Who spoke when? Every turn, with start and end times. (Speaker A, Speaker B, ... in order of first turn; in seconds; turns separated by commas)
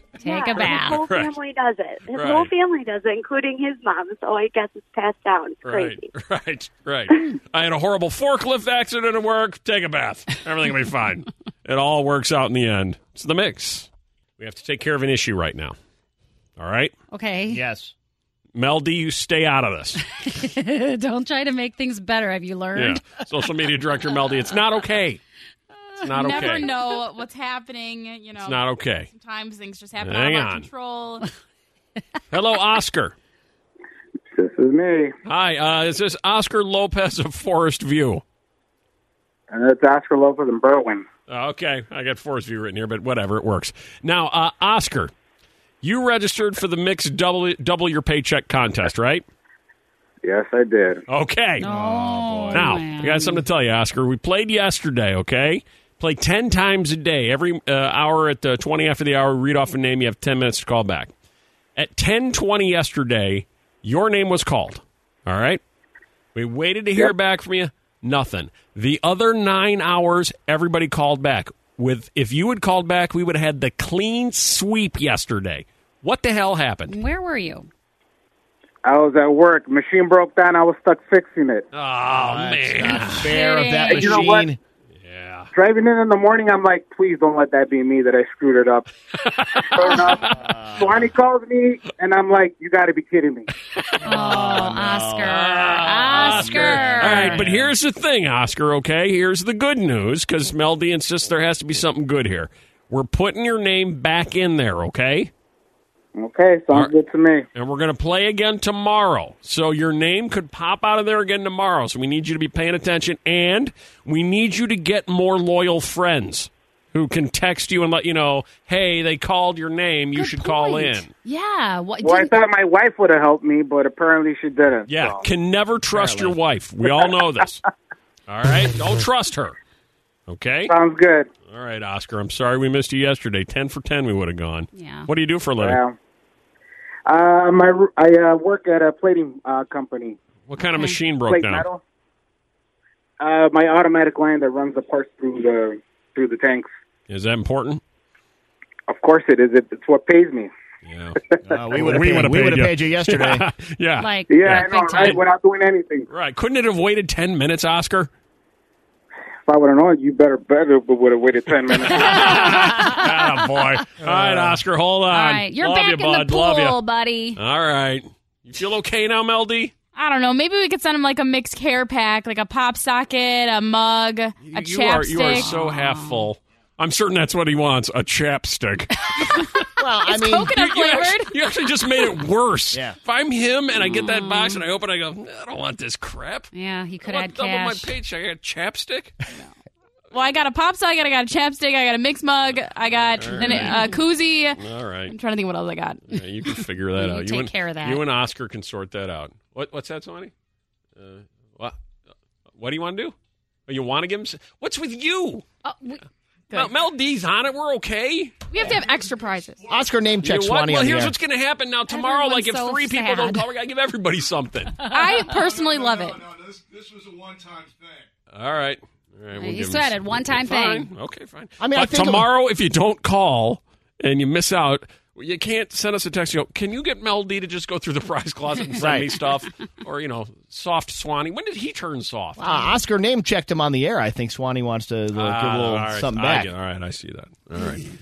Speaker A: 0.2-1.1, Speaker B: 0.2-6.1, Speaker C: 0.7-1.4, Speaker C: 2.0-2.5, Speaker C: 5.6-13.9, Speaker C: 14.4-15.8, Speaker C: 16.6-16.9, Speaker A: 17.1-17.6, Speaker D: 17.5-17.9, Speaker C: 18.6-20.0, Speaker A: 20.2-23.0, Speaker C: 22.8-25.2, Speaker C: 26.0-26.7, Speaker E: 26.1-31.2, Speaker C: 28.4-29.1, Speaker C: 30.0-30.7, Speaker C: 32.3-33.1, Speaker F: 34.3-35.1, Speaker C: 35.2-38.2, Speaker F: 39.5-41.0, Speaker C: 41.3-45.1, Speaker C: 45.8-49.2, Speaker F: 50.2-51.0, Speaker C: 51.1-51.6, Speaker A: 51.6-53.4, Speaker D: 51.6-52.8, Speaker C: 52.5-61.1, Speaker C: 61.8-65.6, Speaker C: 66.3-77.0, Speaker A: 76.9-77.7, Speaker F: 78.8-81.7, Speaker C: 81.7-83.3, Speaker D: 82.1-84.6, Speaker A: 83.3-84.3, Speaker F: 83.9-84.5, Speaker C: 85.0-85.5, Speaker F: 85.5-88.9, Speaker C: 89.2-90.1, Speaker F: 89.7-93.5, Speaker D: 90.1-91.1, Speaker D: 94.0-97.7, Speaker A: 94.0-97.5, Speaker C: 95.3-105.3, Speaker F: 106.2-107.5, Speaker C: 107.5-121.1, Speaker A: 120.2-122.3, Speaker F: 122.0-125.2, Speaker C: 124.9-127.6, Speaker D: 125.9-126.4, Speaker C: 128.3-129.6, Speaker C: 130.3-130.7, Speaker F: 130.7-131.3, Speaker C: 131.5-135.8, Speaker A: 134.7-135.1, Speaker F: 135.6-136.0, Speaker F: 137.1-140.2, Speaker C: 140.5-141.7, Speaker F: 141.3-141.8, Speaker F: 143.2-146.7, Speaker C: 147.1-147.8, Speaker F: 148.9-150.5, Speaker C: 150.8-151.2, Speaker D: 151.4-153.4, Speaker C: 151.7-155.0, Speaker A: 154.0-155.2, Speaker F: 154.3-156.1, Speaker C: 156.1-158.1, Speaker F: 159.5-162.4, Speaker C: 161.9-166.8, Speaker A: 161.9-163.3, Speaker D: 164.0-164.6, Speaker A: 165.1-167.4, Speaker C: 167.4-169.7, Speaker E: 169.9-175.5, Speaker C: 174.4-179.6, Speaker A: 175.4-176.3, Speaker A: 179.2-181.3, Speaker D: 179.8-180.6, Speaker C: 180.5-186.5, Speaker A: 183.8-184.6, Speaker A: 186.5-187.9, Speaker C: 187.0-189.1, Speaker E: 190.1-196.0, Speaker C: 192.9-193.9, Speaker A: 193.4-194.0, Speaker C: 194.6-195.1, Speaker C: 196.1-200.3, Speaker A: 197.0-198.0, Speaker C: 201.0-201.8, Speaker C: 202.6-203.2, Speaker C: 203.7-205.4, Speaker A: 205.7-206.0, Speaker C: 206.5-208.6, Speaker A: 208.5-209.2, Speaker E: 208.5-209.6, Speaker D: 209.7-211.2, Speaker C: 210.2-214.9, Speaker A: 211.9-213.4, Speaker A: 214.8-215.4, Speaker E: 214.8-216.3, Speaker C: 218.3-232.5, Speaker A: 219.4-220.9, Speaker D: 221.6-222.3, Speaker D: 228.8-229.1, Speaker D: 232.4-236.5, Speaker C: 235.2-237.9